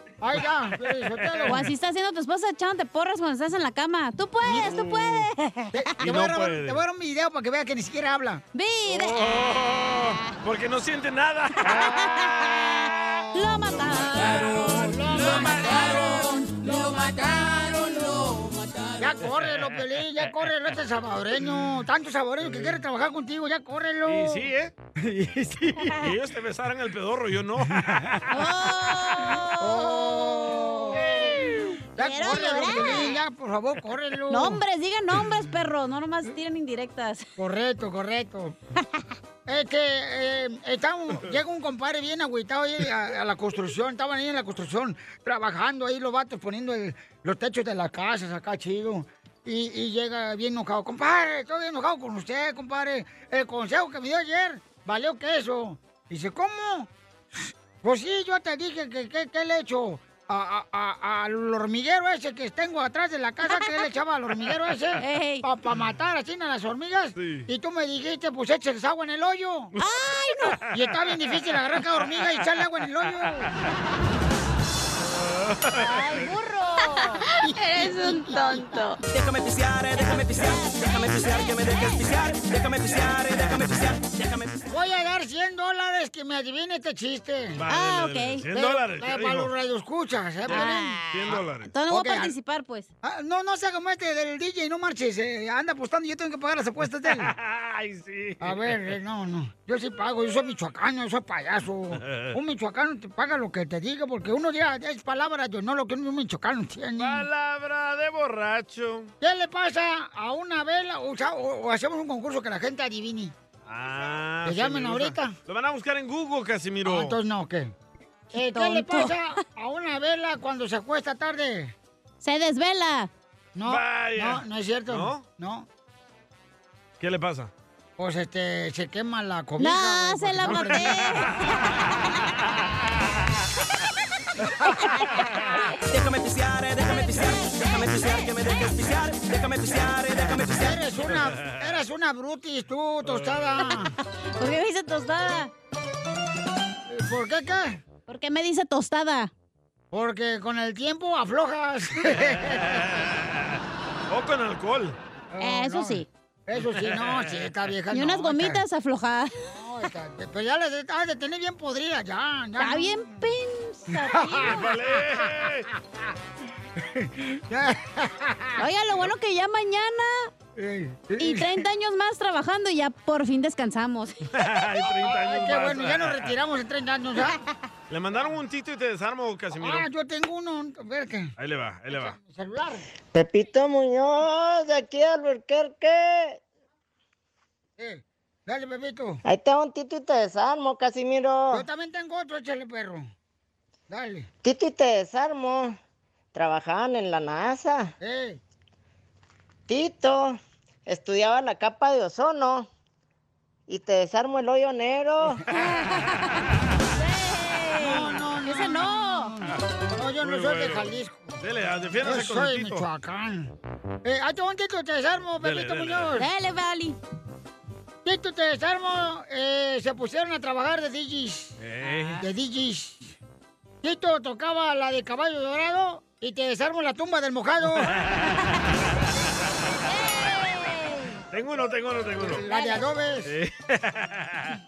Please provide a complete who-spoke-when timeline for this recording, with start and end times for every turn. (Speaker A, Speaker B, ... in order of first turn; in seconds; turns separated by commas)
Speaker A: 0.2-1.6, Speaker B: 0.8-1.7, Speaker C: 1.5-5.8, Speaker A: 4.4-4.8, Speaker B: 4.7-5.2, Speaker A: 5.7-8.4, Speaker B: 6.0-6.8, Speaker C: 8.5-9.4, Speaker B: 8.9-12.1, Speaker C: 10.0-10.3, Speaker C: 11.6-16.2, Speaker A: 14.1-16.7, Speaker C: 16.9-18.2, Speaker A: 19.0-24.4, Speaker B: 19.2-19.5, Speaker B: 22.4-22.8, Speaker B: 24.1-24.7, Speaker A: 25.0-26.0, Speaker B: 25.9-28.5, Speaker A: 27.7-28.1, Speaker C: 28.3-30.7, Speaker A: 29.6-31.3, Speaker B: 31.1-31.6, Speaker A: 32.0-34.6, Speaker C: 32.0-33.2, Speaker C: 34.3-37.3, Speaker A: 37.4-38.5, Speaker A: 39.5-56.9, Speaker A: 57.8-69.7, Speaker C: 65.0-65.4, Speaker B: 67.2-67.5, Speaker C: 69.8-70.6, Speaker B: 70.4-70.7, Speaker A: 70.7-73.5, Speaker B: 75.4-76.0, Speaker C: 75.8-77.2, Speaker D: 79.1-84.6, Speaker A: 84.7-87.6, Speaker B: 87.6-89.5, Speaker C: 87.7-88.4, Speaker A: 88.5-91.0, Speaker C: 90.5-92.9, Speaker B: 90.5-91.7, Speaker A: 91.9-92.3, Speaker A: 93.0-97.3, Speaker B: 97.0-98.9, Speaker A: 98.4-107.2, Speaker B: 102.0-102.3, Speaker B: 107.0-109.1, Speaker A: 109.2-113.3, Speaker B: 113.7-117.2, Speaker A: 114.5-115.3, Speaker A: 116.8-117.7, Speaker A: 118.3-121.7, Speaker C: 118.3-119.2, Speaker C: 122.2-123.1, Speaker A: 123.5-125.7, Speaker B: 123.7-125.2, Speaker B: 127.0-127.5, Speaker A: 128.0-130.9, Speaker C: 129.6-131.8, Speaker B: 130.5-131.3, Speaker C: 134.9-135.2, Speaker D: 135.8-140.8, Speaker A: 140.6-143.9, Speaker B: 141.0-141.6, Speaker B: 143.1-143.4, Speaker C: 144.4-145.5, Speaker A: 146.9-147.8, Speaker C: 148.1-149.3, Speaker A: 149.9-152.8, Speaker B: 152.3-155.0, Speaker A: 155.3-158.6, Speaker C: 155.4-156.1, Speaker B: 156.8-157.3, Speaker C: 157.9-159.3, Speaker A: 159.5-163.2, Speaker C: 162.6-164.6, Speaker A: 164.0-165.2, Speaker B: 164.4-165.7, Speaker A: 166.8-168.6, Speaker C: 168.6-170.3, Speaker A: 170.6-171.5, Speaker C: 171.2-174.1, Speaker B: 174.3-176.3, Speaker A: 175.0-177.4, Speaker B: 177.9-179.9, Speaker A: 179.6-181.3, Speaker B: 181.4-182.2, Speaker A: 181.9-182.8, Speaker E: 183.1-186.4, Speaker A: 187.8-189.2, Speaker E: 189.2-191.6, Speaker A: 191.5-193.1, Speaker A: 193.9-194.3, Speaker E: 194.4-195.8, Speaker E: 196.3-197.9, Speaker A: 198.0-198.4, Speaker E: 199.7-202.7, Speaker E: 203.7-205.4, Speaker C: 205.5-206.3, Speaker C: 206.9-209.3, Speaker A: 207.8-211.4, Speaker B: 210.2-212.8, Speaker A: 212.0-213.5, Speaker A: 214.0-216.3, Speaker B: 215.4-216.1, Speaker C: 216.2-217.0, Speaker A: 218.0-221.5, Speaker B: 221.6-222.2, Speaker C: 221.8-222.2, Speaker A: 222.2-223.1, Speaker A: 223.8-227.9, Speaker C: 229.8-231.2, Speaker B: 231.3-232.4, Speaker A: 232.2-233.3, Speaker C: 232.4-232.8, Speaker B: 233.2-234.5